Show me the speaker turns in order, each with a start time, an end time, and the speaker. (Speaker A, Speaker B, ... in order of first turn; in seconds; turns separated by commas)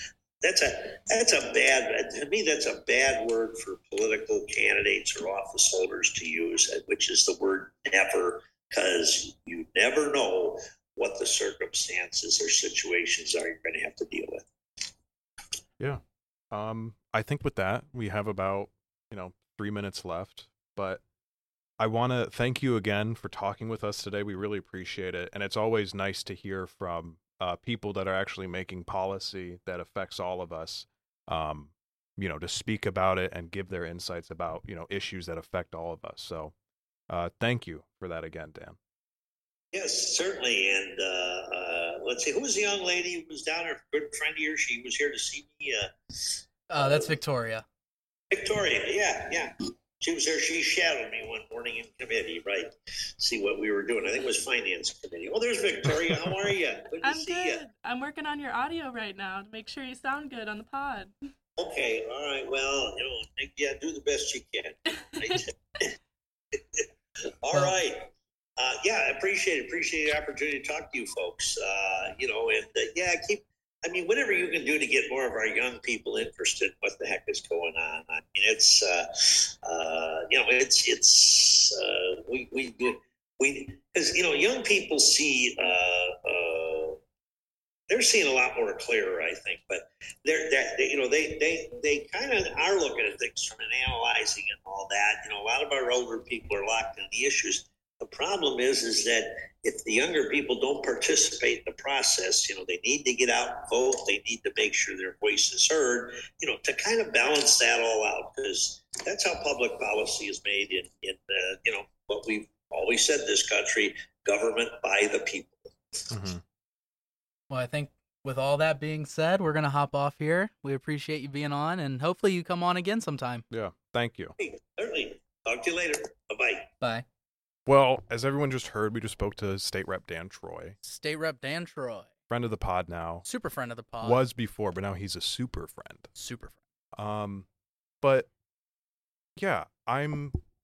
Speaker A: 0.4-14.4, Speaker B: 15.8-21.0, Speaker B: 21.8-36.5, Speaker B: 37.1-38.8, Speaker A: 39.7-47.1, Speaker C: 46.7-47.6, Speaker A: 48.3-57.6, Speaker D: 57.0-61.1, Speaker A: 61.6-65.9, Speaker D: 65.2-65.5, Speaker A: 66.5-66.9, Speaker A: 67.4-87.0, Speaker C: 67.5-67.8, Speaker A: 87.9-115.7, Speaker B: 116.1-116.4, Speaker C: 117.5-123.4, Speaker B: 123.5-124.4, Speaker A: 124.4-126.7, Speaker B: 127.7-130.8, Speaker C: 130.8-132.1, Speaker B: 132.3-133.2, Speaker C: 133.2-134.2, Speaker B: 134.0-136.1, Speaker C: 136.2-136.6, Speaker B: 136.9-137.5, Speaker B: 138.0-138.3, Speaker B: 139.4-140.4